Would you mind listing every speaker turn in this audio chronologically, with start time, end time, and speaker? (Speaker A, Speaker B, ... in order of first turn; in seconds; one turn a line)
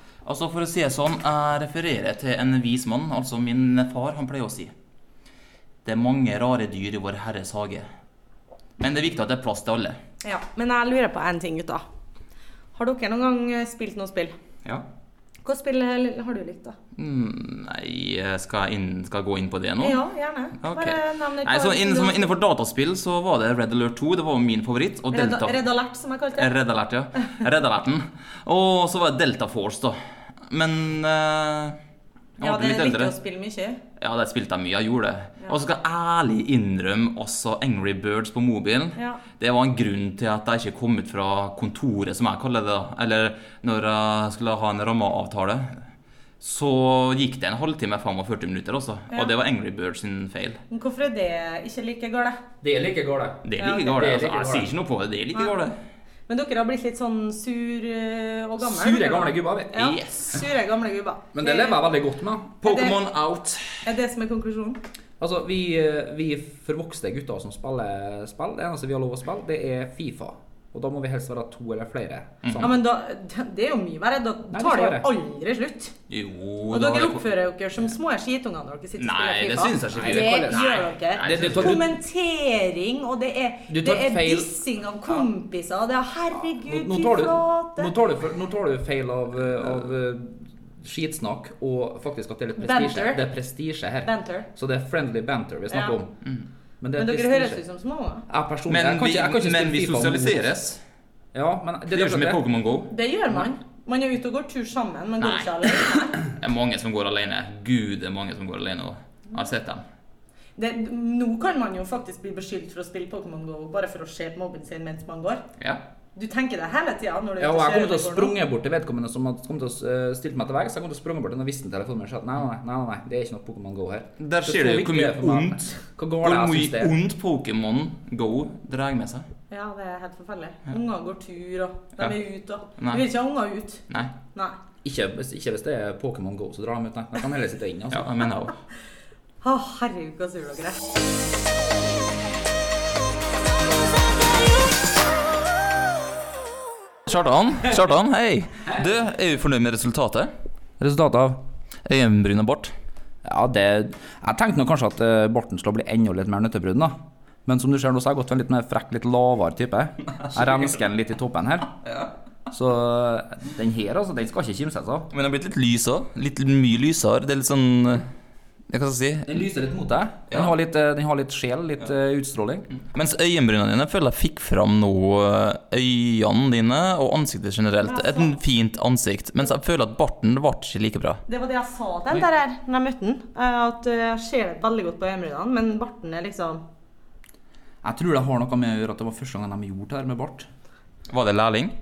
Speaker A: 0.2-4.7
Speaker A: 5.8-7.9
Speaker A: 8.8-10.0
Speaker B: 10.2-11.8
Speaker B: 12.7-14.3
Speaker B: 15.4-16.8
Speaker A: 16.9-20.0
Speaker B: 19.8-22.3
Speaker A: 20.6-25.6
Speaker B: 25.1-26.5
Speaker A: 26.4-31.8
Speaker A: 32.4-33.1
Speaker B: 32.4-33.8
Speaker A: 34.0-45.8
Speaker A: 46.4-50.6
Speaker B: 50.7-52.4
Speaker C: 52.6-54.7
Speaker A: 53.4-55.8
Speaker B: 53.6-53.9
Speaker B: 56.3-61.8
Speaker C: 58.6-59.8
Speaker A: 59.7-60.4
Speaker C: 61.3-62.6
Speaker A: 62.6-63.8
Speaker B: 62.6-63.0
Speaker B: 63.8-64.8
Speaker C: 65.2-72.7
Speaker A: 72.4-72.8
Speaker B: 72.6-75.9
Speaker C: 74.5-75.1
Speaker A: 76.1-77.3
Speaker B: 76.7-87.9
Speaker A: 79.0-81.8
Speaker C: 79.9-80.7
Speaker C: 81.2-81.9
Speaker C: 83.7-84.5
Speaker C: 86.5-96.1
Speaker B: 92.6-93.2
Speaker B: 94.0-94.5
Speaker C: 96.8-97.6
Speaker B: 97.0-98.2
Speaker C: 98.3-100.5
Speaker A: 98.7-100.8
Speaker C: 101.3-102.4
Speaker A: 101.9-102.9
Speaker B: 102.9-106.2
Speaker A: 105.2-109.8
Speaker B: 110.6-115.4
Speaker B: 116.1-118.3
Speaker C: 117.4-127.0
Speaker A: 124.2-125.7
Speaker A: 126.2-129.2
Speaker B: 129.5-133.8
Speaker A: 132.8-133.0
Speaker C: 134.8-138.1
Speaker A: 137.9-138.5
Speaker B: 139.4-140.8
Speaker A: 147.1-150.3
Speaker C: 150.8-151.4
Speaker A: 151.8-152.7
Speaker C: 153.2-161.7
Speaker A: 160.1-160.8
Speaker A: 161.8-162.1
Speaker C: 162.5-165.1
Speaker A: 165.1-168.1
Speaker A: 168.7-169.4
Speaker C: 169.2-172.7
Speaker A: 170.3-170.5
Speaker A: 172.7-181.2
Speaker B: 177.8-178.4
Speaker B: 181.3-186.6
Speaker C: 187.8-190.5
Speaker A: 191.1-191.7